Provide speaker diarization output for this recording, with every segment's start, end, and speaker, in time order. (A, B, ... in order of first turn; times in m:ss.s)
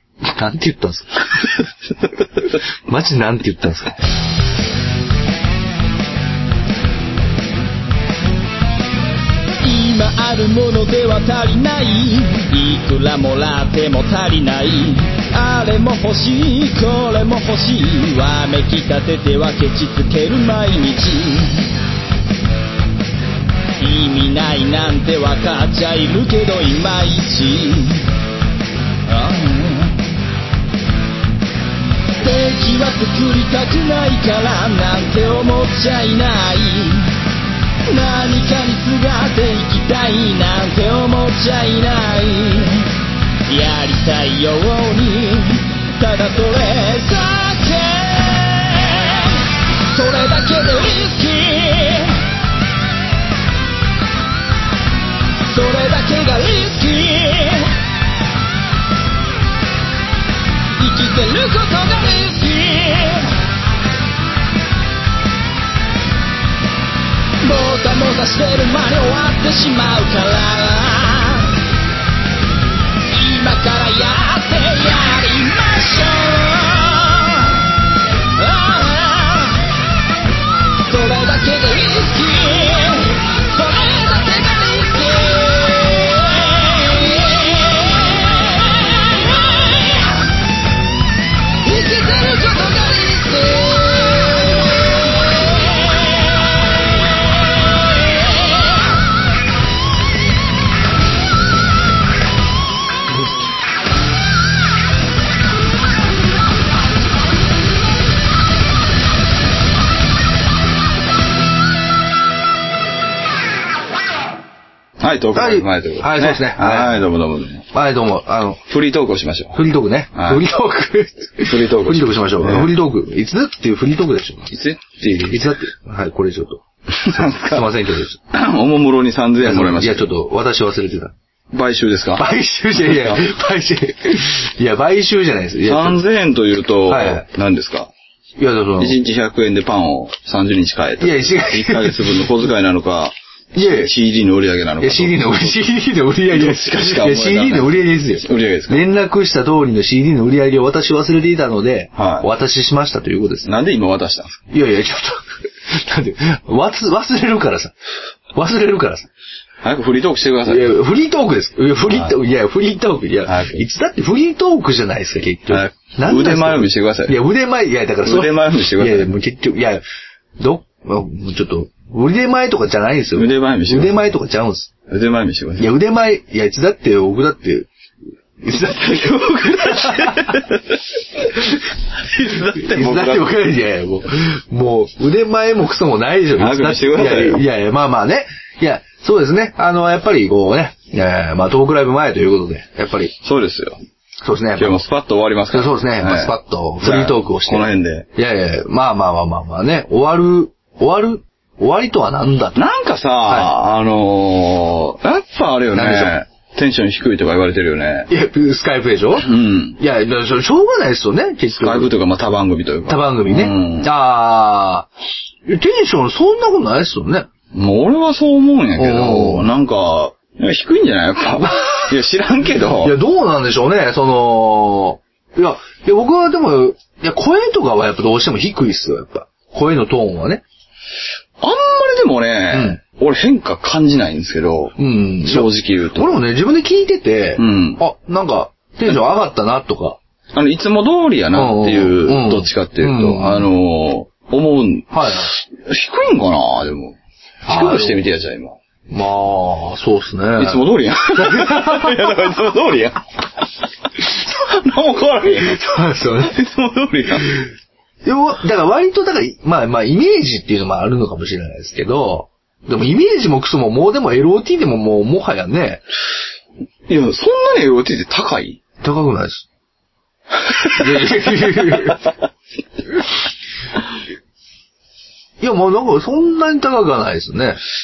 0:00.2-0:01.7 A
0:02.4-0:04.0 A
0:09.6-0:21.7 B
0:23.8-0:28.1 B
0:29.1-0:30.0 B
0:32.2-0:37.1 B
0:37.9-0:42.9 B
0:43.5-0:52.2 B
0:55.4-0:57.7 B
1:00.8-1:03.3 B
1:07.4-1:11.6 B
1:13.1-1:17.7 B
1:18.3-1:19.7 B
1:20.9-1:30.2 B
1:31.6-1:36.7 B
1:37.7-1:38.5 B
1:55.0-1:57.6 C
1:55.3-1:57.0 A
1:57.7-1:58.6 A
1:58.7-1:59.6 C
1:59.5-2:04.5 A
2:00.1-2:00.4 C
2:01.4-2:02.7 C
2:04.5-2:05.5 C
2:05.3-2:08.2 A
2:06.9-2:07.7 C
2:08.3-2:10.1 C
2:09.4-2:11.1 A
2:11.5-2:13.2 C
2:12.2-2:16.0 A
2:15.6-2:17.9 C
2:16.9-2:17.2 A
2:18.4-2:19.0 A
2:18.8-2:25.6 C
2:21.0-2:22.2 A
2:23.5-2:23.9 A
2:24.8-2:33.5 A
2:26.3-2:28.9 C
2:32.0-2:32.3 C
2:33.4-2:34.4 C
2:34.5-2:37.7 A
2:38.3-2:39.1 A
2:39.6-2:40.7 C
2:40.5-2:49.8 A
2:43.2-2:43.6 C
2:45.5-2:47.2 C
2:48.0-2:49.1 C
2:50.4-2:54.7 A
2:53.1-2:54.0 C
2:54.9-2:55.7 C
2:55.6-2:57.7 A
2:58.4-3:00.4 A
2:58.5-3:00.8 C
3:01.3-3:01.6 A
3:02.0-3:03.4 C
3:02.3-3:13.1 A
3:06.4-3:07.4 C
3:13.2-3:13.8 C
3:14.2-3:14.8 A
3:14.6-3:18.1 C
3:15.5-3:22.6 A
3:22.6-3:28.1 C
3:25.7-3:26.1 A
3:28.1-3:31.9 A
3:29.2-3:29.8 C
3:31.6-3:33.9 C
3:32.9-3:34.9 A
3:35.4-3:37.3 A
3:37.5-3:43.0 C
3:38.8-3:39.5 A
3:41.5-3:41.9 A
3:42.8-3:50.4 A
3:51.4-3:56.2 C
3:52.5-3:52.8 A
3:54.8-4:00.0 A
3:57.4-3:57.8 C
4:00.3-4:08.6 C
4:01.3-4:03.5 A
4:04.9-4:05.3 A
4:07.5-4:08.0 A
4:08.9-4:12.2 A
4:10.4-4:13.0 C
4:14.0-4:17.4 C
4:15.2-4:16.4 A
4:18.0-4:25.8 A
4:26.9-4:28.6 C
4:28.8-4:29.4 A
4:30.4-4:31.8 C
4:30.7-4:32.1 A
4:35.4-4:37.6 A